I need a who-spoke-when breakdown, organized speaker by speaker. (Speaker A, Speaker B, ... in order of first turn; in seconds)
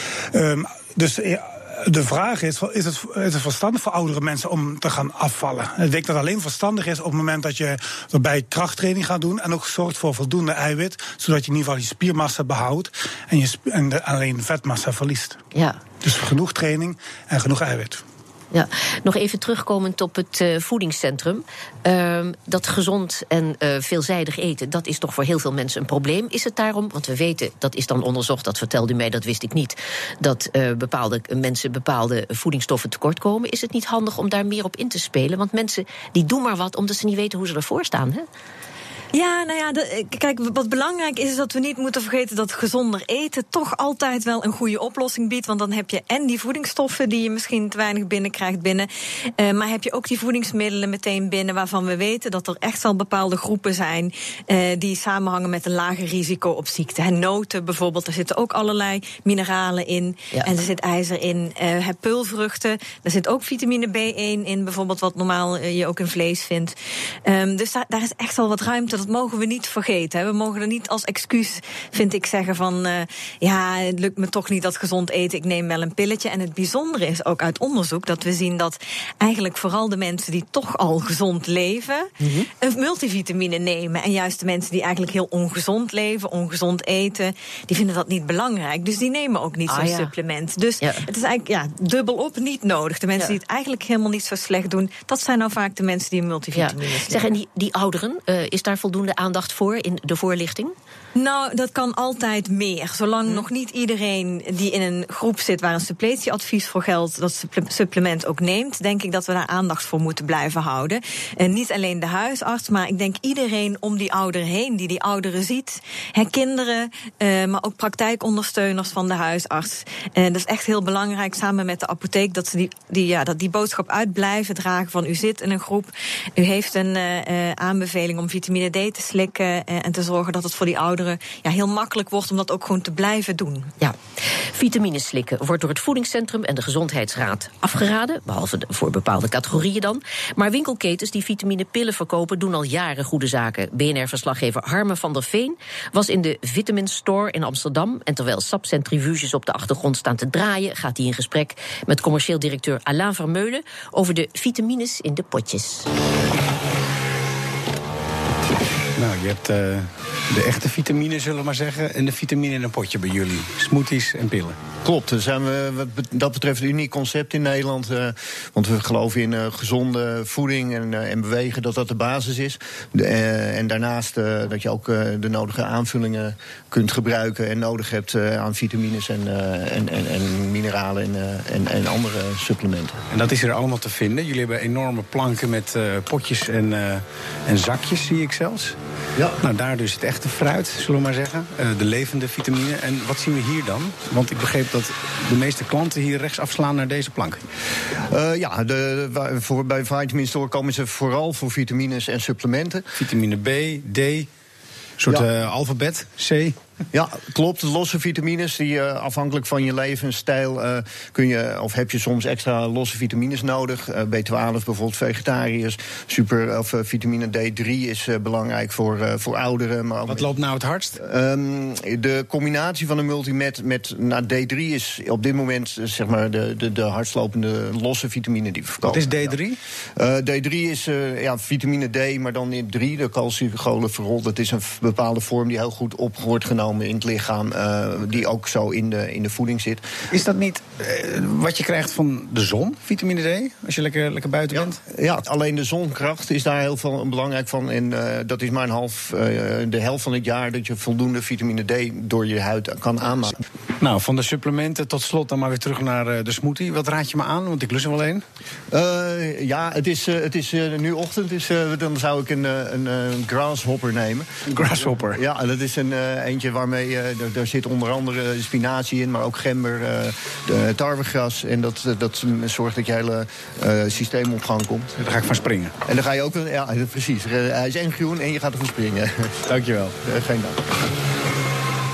Speaker A: 0.3-15.4, 16.0-18.0
Speaker B: 15.5-15.8, 18.5-38.3, 82.2-82.5, 89.7-90.1, 96.5-100.8, 134.5-155.9
Speaker C: 39.1-97.2, 101.2-133.7
Speaker D: 159.0-164.6, 183.1-188.8, 189.4-197.4, 203.0-204.3, 205.0-206.6, 220.1-221.0, 228.8-229.6, 240.1-244.8, 253.8-258.2, 264.5-265.2, 275.0-275.7, 279.5-280.0
Speaker E: 164.8-183.0, 198.1-202.9, 206.9-220.3, 221.0-229.4, 230.0-239.9, 244.5-253.4, 258.7-274.9, 275.9-279.4, 280.0-280.6